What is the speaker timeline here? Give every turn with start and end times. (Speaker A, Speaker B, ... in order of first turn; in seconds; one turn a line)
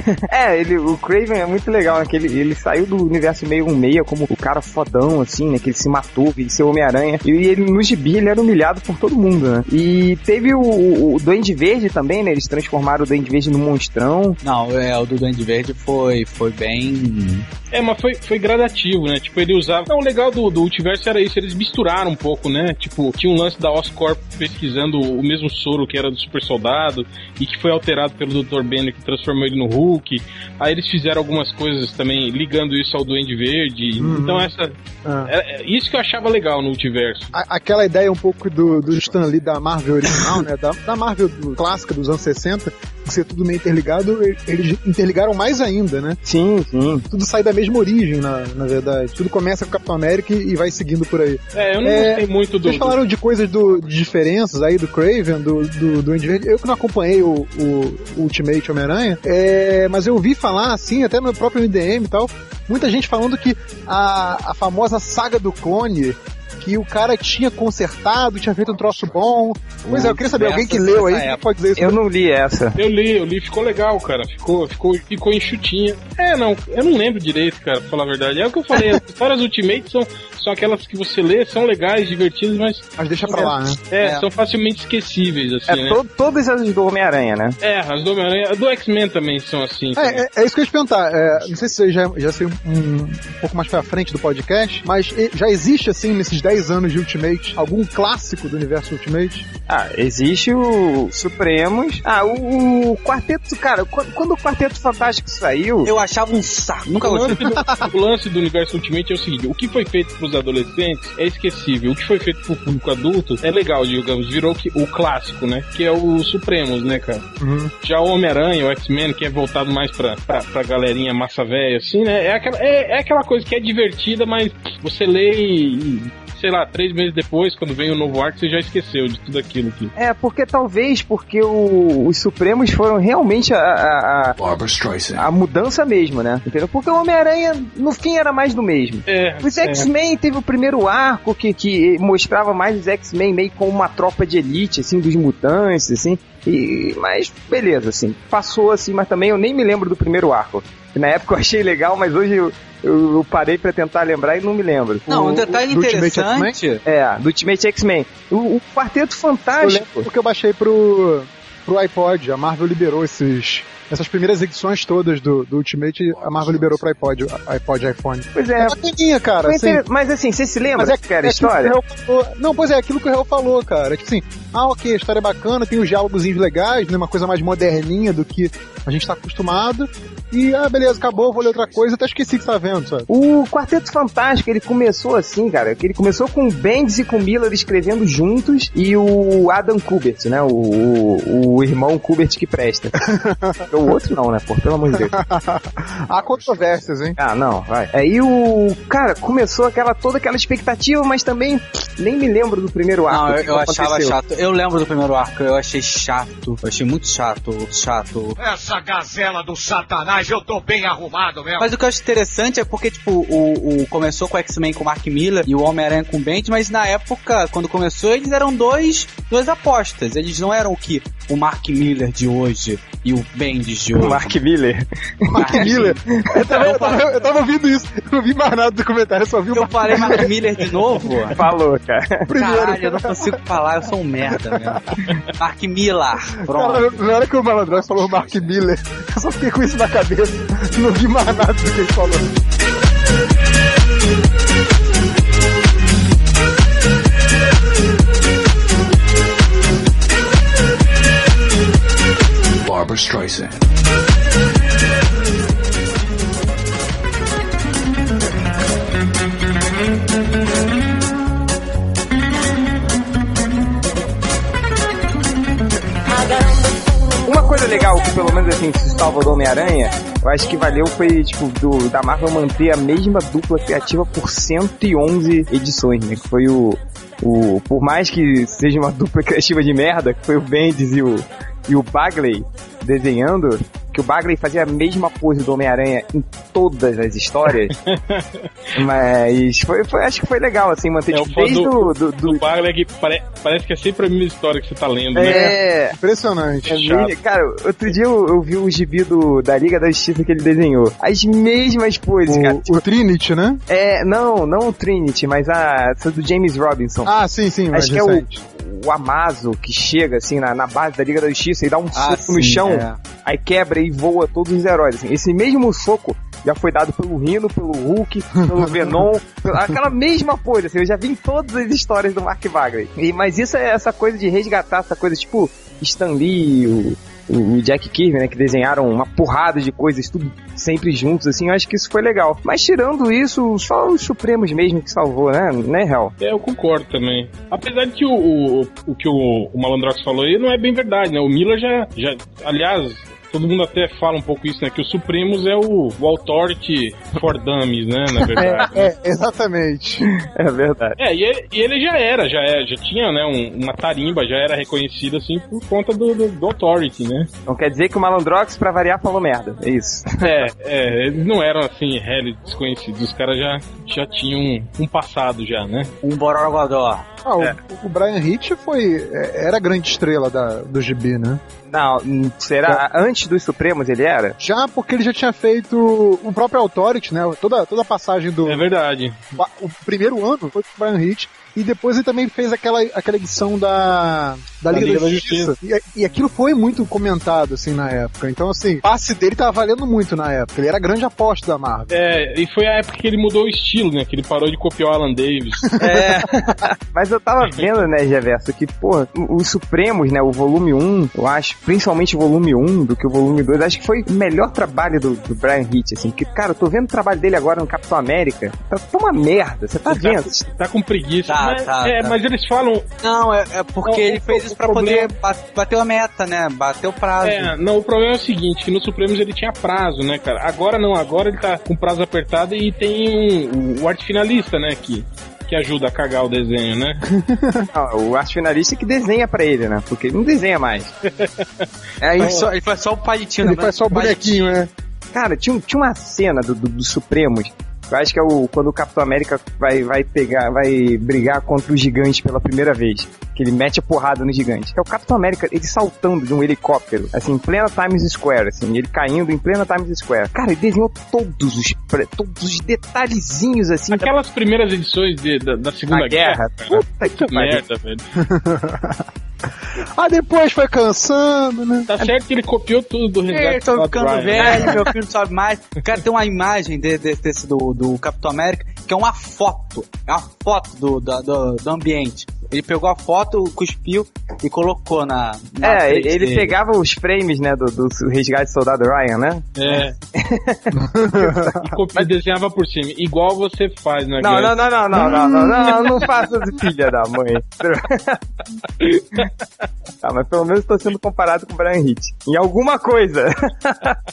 Speaker A: 0.2-14.4
Speaker B: 14.4-17.5
Speaker C: 17.7-37.3
Speaker D: 34.0-34.5
Speaker D: 35.0-35.3
Speaker D: 37.3-46.2
Speaker E: 38.6-39.4
Speaker A: 46.2-47.1
Speaker D: 47.1-72.0
Speaker C: 51.5-53.0
Speaker E: 53.6-54.3
Speaker E: 68.7-69.2
Speaker B: 69.8-71.4
Speaker A: 71.8-72.8
Speaker C: 72.8-86.0
Speaker D: 83.0-83.8
Speaker A: 85.7-87.6
Speaker C: 87.6-90.2
Speaker D: 90.0-99.5
Speaker A: 99.7-105.9
Speaker B: 105.8-107.5
Speaker C: 107.0-117.3
Speaker D: 107.3-107.9
Speaker D: 117.4-117.7
Speaker C: 117.8-129.9
Speaker A: 129.9-134.3
Speaker E: 134.4-135.2
Speaker A: 135.1-155.1
Speaker C: 139.1-139.9
Speaker D: 155.1-156.6
Speaker B: 155.1-156.8
Speaker A: 156.8-160.1
Speaker D: 159.6-169.8
Speaker E: 166.1-166.9
Speaker A: 168.3-168.8
Speaker A: 169.4-171.8
Speaker D: 170.8-183.1
Speaker E: 180.9-181.9
Speaker A: 183.1-193.1
Speaker D: 193.0-193.7
Speaker A: 193.7-195.1
Speaker D: 194.9-197.2
Speaker E: 196.2-196.8
Speaker A: 197.2-204.2
Speaker B: 203.1-208.3
Speaker F: 208.4-211.7
Speaker B: 211.6-224.3
Speaker A: 223.9-226.4
Speaker D: 225.3-230.3
Speaker B: 225.3-227.3
Speaker B: 229.5-231.4
Speaker A: 231.3-232.3
Speaker D: 232.3-233.3
Speaker B: 232.4-234.8
Speaker D: 234.5-235.2
Speaker B: 235.4-237.0
Speaker D: 236.5-242.3
Speaker E: 237.7-238.5
Speaker E: 252.6-253.6
Speaker A: 267.2-287.8
Speaker C: 287.7-288.5
Speaker A: 288.8-292.4
Speaker C: 291.1-295.5
Speaker A: 295.1-296.0
Speaker D: 295.1-296.9
Speaker A: 296.7-302.8
Speaker C: 296.7-297.1
Speaker D: 302.2-303.6
Speaker A: 303.7-307.1
Speaker D: 307.0-308.4
Speaker A: 307.7-336.1
Speaker B: 311.9-313.0
Speaker D: 318.6-319.0
Speaker C: 336.2-348.9
Speaker D: 348.4-350.1
Speaker A: 350.0-351.0
Speaker C: 351.0-357.3
Speaker A: 357.5-360.4
Speaker C: 360.2-365.9
Speaker B: 366.0-367.1
Speaker D: 367.2-371.4
Speaker A: 371.7-374.4
Speaker D: 374.4-378.6
Speaker C: 378.4-379.2
Speaker D: 379.4-391.9
Speaker C: 384.7-385.5
Speaker C: 391.9-395.7
Speaker D: 395.8-396.1
Speaker A: 395.8-410.5
Speaker C: 409.9-412.9
Speaker B: 411.3-412.1
Speaker B: 413.0-417.5
Speaker C: 413.8-415.1
Speaker C: 417.2-427.0
Speaker D: 427.1-427.7
Speaker A: 427.7-430.9
Speaker C: 431.2-431.7
Speaker B: 432.0-434.5
Speaker A: 432.1-432.3
Speaker C: 432.2-432.4
Speaker D: 433.4-434.7
Speaker A: 435.1-454.1
Speaker C: 453.9-458.0
Speaker A: 455.9-457.6
Speaker D: 458.2-459.0
Speaker D: 459.8-461.9
Speaker C: 461.9-464.8
Speaker B: 463.3-476.5
Speaker A: 464.3-464.8
Speaker A: 475.6-482.0
Speaker C: 479.6-479.9
Speaker D: 480.7-481.6
Speaker C: 481.4-484.6
Speaker A: 484.2-489.3
Speaker D: 484.9-486.1
Speaker A: 490.0-494.0